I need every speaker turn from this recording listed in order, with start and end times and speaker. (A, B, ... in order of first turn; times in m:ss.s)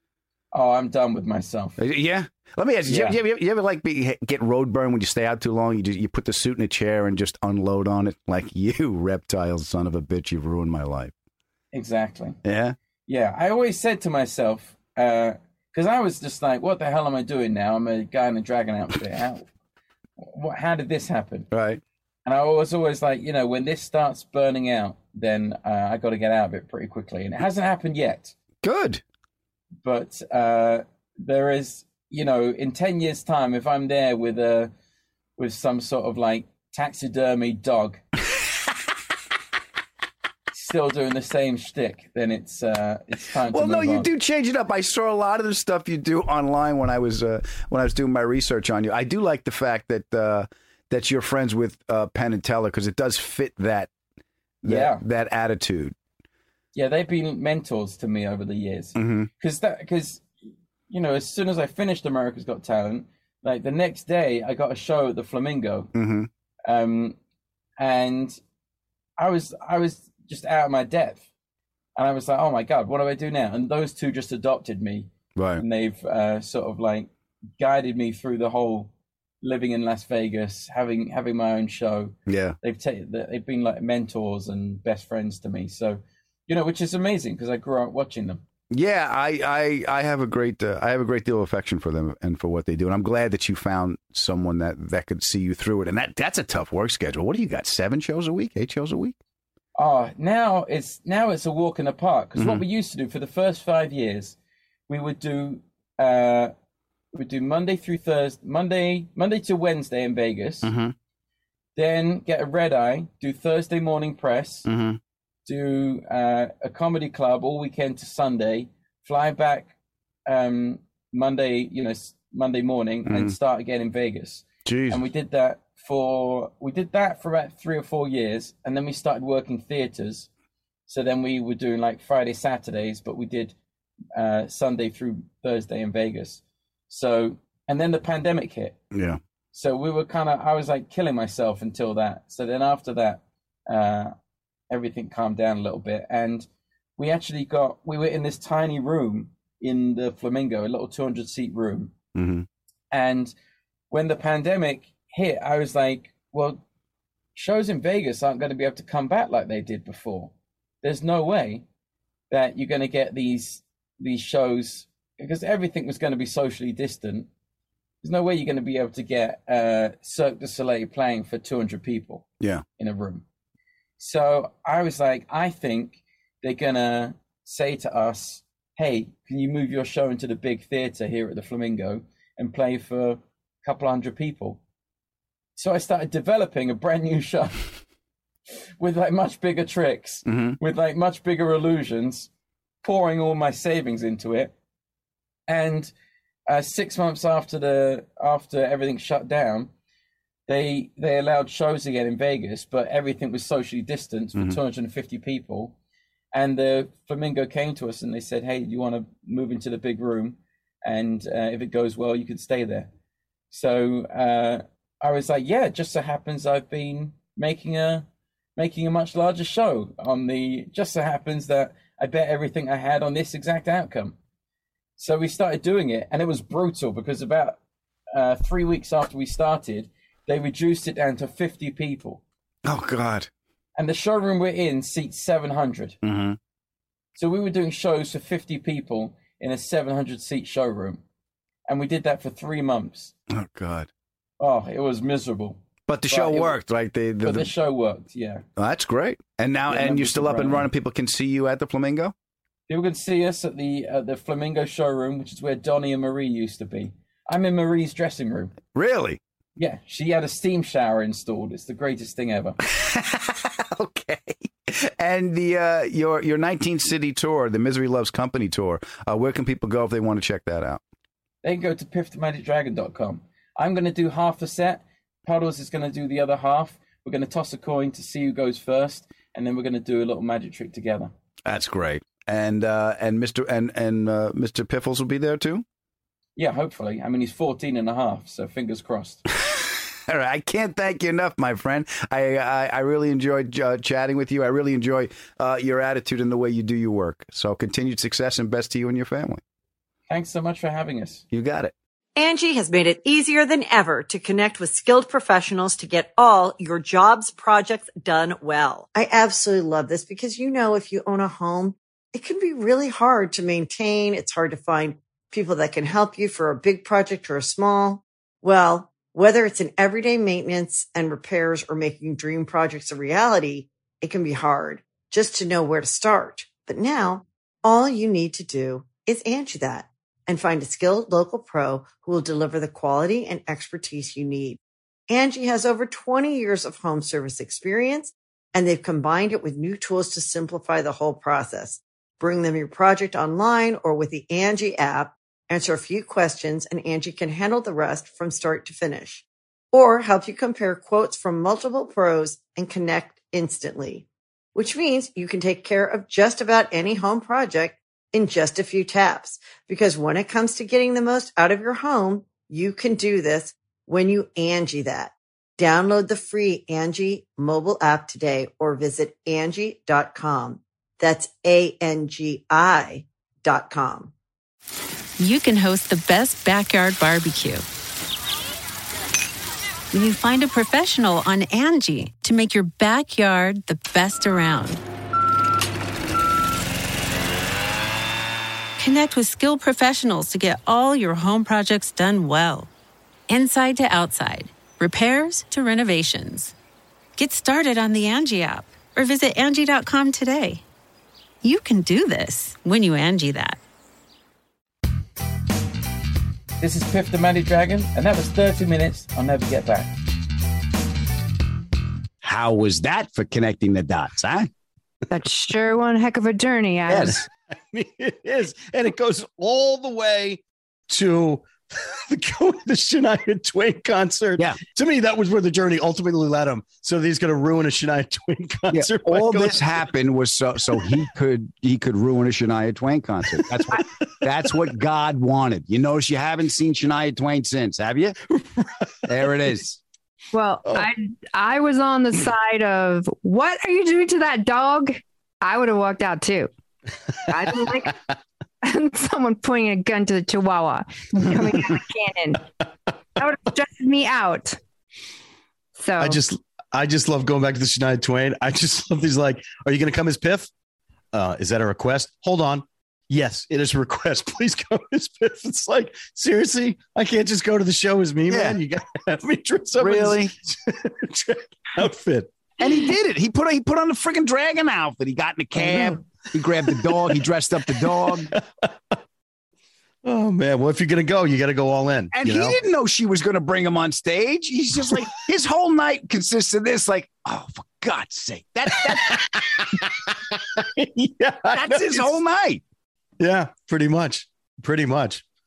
0:00.5-0:01.8 A
0:01.8-0:11.1 B
0:02.9-0:03.2 A
0:11.7-0:12.4 A
0:12.4-0:12.8 B
0:13.1-0:19.5 A
0:20.2-0:21.5 A
0:21.5-0:21.8 B
0:22.2-0:28.3 A
0:28.6-0:29.0 B
0:29.8-0:34.7 A
0:35.4-0:38.0 A
0:40.5-0:44.1 A
0:43.5-0:53.9 B
0:54.6-0:55.9 B
0:54.6-0:55.0 A
0:56.7-1:00.3 A
0:59.0-0:59.3 B
1:00.9-1:05.9 A
1:05.9-1:06.3 B
1:06.6-1:07.2 A
1:07.8-1:08.4 A
1:09.2-1:11.3 A
1:12.0-1:18.9 A
1:15.4-1:15.6 B
1:19.4-1:28.4 A
1:22.3-1:22.6 B
1:28.7-1:39.1 B
1:39.8-1:44.4 A
1:42.4-1:42.6 B
1:44.9-1:46.5 A
1:47.1-1:50.7 A
1:50.6-1:50.9 B
1:51.8-1:54.7 A
1:54.7-1:55.0 B
1:55.4-1:59.7 A
2:00.2-2:10.3 A
2:03.0-2:03.3 B
2:04.6-2:05.0 B
2:10.9-2:13.5 A
2:14.1-2:18.8 A
2:18.9-2:19.2 B
2:19.5-2:24.1 A
2:24.7-2:26.4 A
2:27.0-2:31.9 A
2:32.1-2:32.5 B
2:32.9-2:33.3 A
2:33.9-2:36.6 A
2:37.4-2:41.6 A
2:42.3-2:47.3 A
2:48.0-2:52.2 A
2:52.8-2:53.2 A
2:54.0-3:04.6 A
3:05.6-3:07.7 A
3:08.8-3:12.3 A
3:10.3-3:10.6 B
3:12.8-3:14.5 A
3:15.5-3:15.9 A
3:16.5-3:19.7 A
3:20.5-3:25.7 A
3:26.3-3:32.9 A
3:33.5-3:44.1 A
3:45.0-3:47.6 A
3:48.1-3:52.2 A
3:52.6-3:53.3 B
3:53.8-3:56.0 A
3:56.0-3:56.4 B
3:57.2-4:01.0 A
4:01.7-4:03.1 A
4:03.3-4:03.9 B
4:04.4-4:06.5 A
4:05.9-4:07.5 B
4:07.2-4:08.4 A
4:08.6-4:12.1 B
4:09.7-4:10.7 A
4:12.7-4:18.6 A
4:18.7-4:19.2 B
4:19.6-4:22.6 A
4:22.7-4:30.8 B
4:31.4-4:41.1 A
4:41.4-4:45.6 B
4:46.4-4:49.2 A
4:49.5-4:59.4 B
5:00.1-5:01.2 A
5:01.3-5:01.7 B
5:02.2-6:14.1 C
6:15.2-6:17.6 D
6:19.9-6:24.8 D
6:28.8-6:32.7 D
6:33.3-6:36.5 D
6:37.2-6:40.6 D
6:41.4-6:43.6 D
6:46.6-6:49.9 A
6:52.2-6:54.5 B
6:55.1-6:57.2 E
6:56.9-6:57.2 B
6:57.7-7:09.6 F
7:08.7-7:18.2 B
7:13.3-7:13.8 F
7:18.3-7:19.1 F
7:19.1-7:19.8 B
7:20.3-7:26.5 E
7:27.3-7:28.0 E
7:28.6-7:32.4 E
7:33.2-7:34.6 E
7:35.8-7:36.2 E
7:36.0-7:40.5 F
7:41.1-7:52.3 F
7:48.3-7:48.6 B
7:49.8-7:50.3 B
7:52.6-7:58.3 B
7:55.6-7:56.0 F
7:56.7-7:57.2 F
7:58.1-7:58.7 F
8:00.0-8:02.6 F
8:02.1-8:09.8 B
8:08.8-8:09.4 F
8:10.6-8:12.1 F
8:11.5-8:12.6 B
8:13.2-8:15.2 F